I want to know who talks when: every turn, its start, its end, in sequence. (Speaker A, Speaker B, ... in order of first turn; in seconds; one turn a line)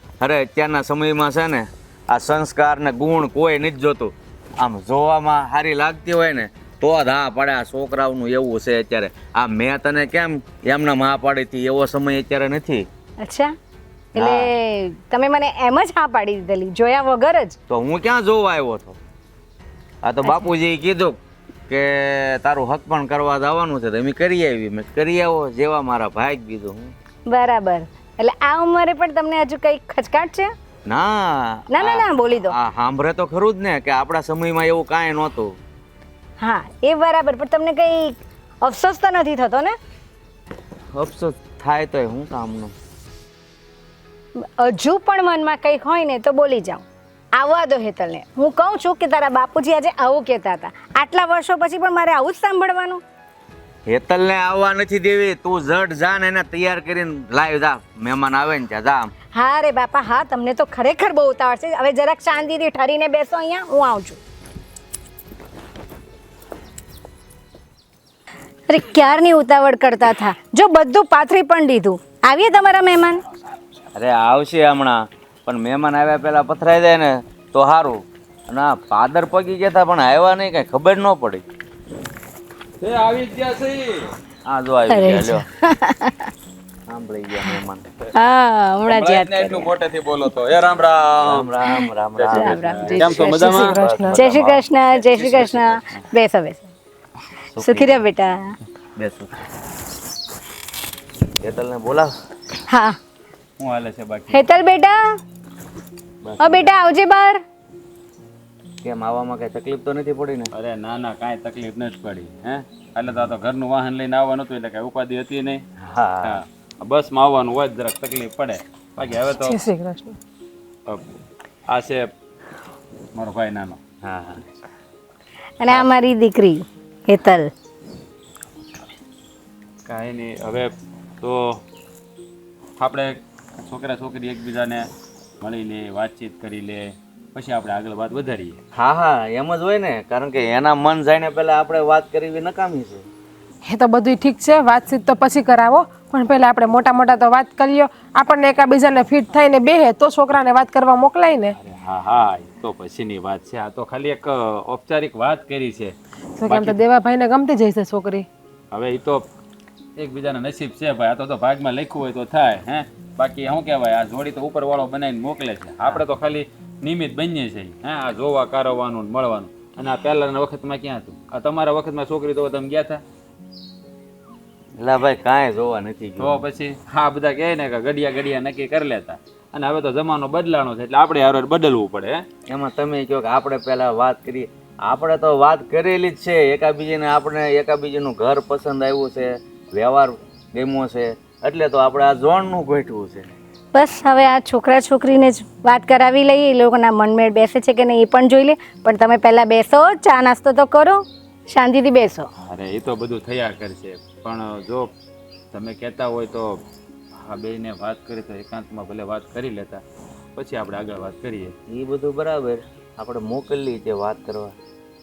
Speaker A: 0.2-12.8
Speaker B: 13.2-13.5
Speaker B: 14.1-17.6
Speaker A: 14.2-14.5
Speaker A: 17.7-19.0
Speaker A: 20.0-21.2
Speaker A: 21.7-26.9
Speaker B: 27.3-30.5
Speaker A: 30.9-35.5
Speaker B: 31.7-32.5
Speaker B: 36.4-39.7
Speaker A: 40.9-42.7
Speaker B: 44.6-46.8
Speaker B: 47.4-53.0
Speaker A: 53.9-59.1
Speaker B: 59.3-64.2
Speaker B: 68.7-73.2
Speaker A: 74.0-75.0
Speaker A: 75.5-81.4
Speaker C: 82.8-84.1
Speaker A: 84.5-85.4
Speaker B: 84.9-86.3
Speaker A: 86.9-87.8
Speaker B: 88.1-89.7
Speaker C: 88.9-91.5
Speaker A: 91.3-95.6
Speaker B: 91.6-93.6
Speaker C: 92.2-93.8
Speaker D: 93.2-94.1
Speaker B: 94.1-96.7
Speaker C: 95.3-95.8
Speaker A: 97.5-98.0
Speaker B: 97.6-98.5
Speaker A: 99.0-99.4
Speaker A: 101.4-102.1
Speaker B: 102.7-103.0
Speaker C: 103.6-104.5
Speaker B: 104.3-105.0
Speaker A: 106.2-106.7
Speaker B: 106.4-107.4
Speaker A: 108.8-110.5
Speaker C: 110.5-115.6
Speaker A: 115.8-116.4
Speaker C: 116.2-119.6
Speaker D: 119.4-120.1
Speaker C: 121.7-122.1
Speaker C: 123.1-123.8
Speaker A: 124.0-124.4
Speaker B: 125.6-127.5
Speaker C: 129.9-131.6
Speaker C: 132.8-134.8
Speaker C: 135.4-138.6
Speaker A: 138.7-143.1
Speaker D: 143.7-151.5
Speaker C: 151.6-155.9
Speaker D: 156.4-158.2
Speaker C: 156.4-156.8
Speaker C: 158.7-159.2
Speaker C: 160.0-173.0
Speaker A: 174.8-176.4
Speaker C: 176.2-182.2
Speaker A: 182.5-193.3
Speaker B: 193.7-202.3
Speaker C: 202.4-204.9
Speaker C: 205.5-206.6
Speaker C: 207.2-209.8
Speaker C: 210.3-211.5
Speaker A: 211.7-214.5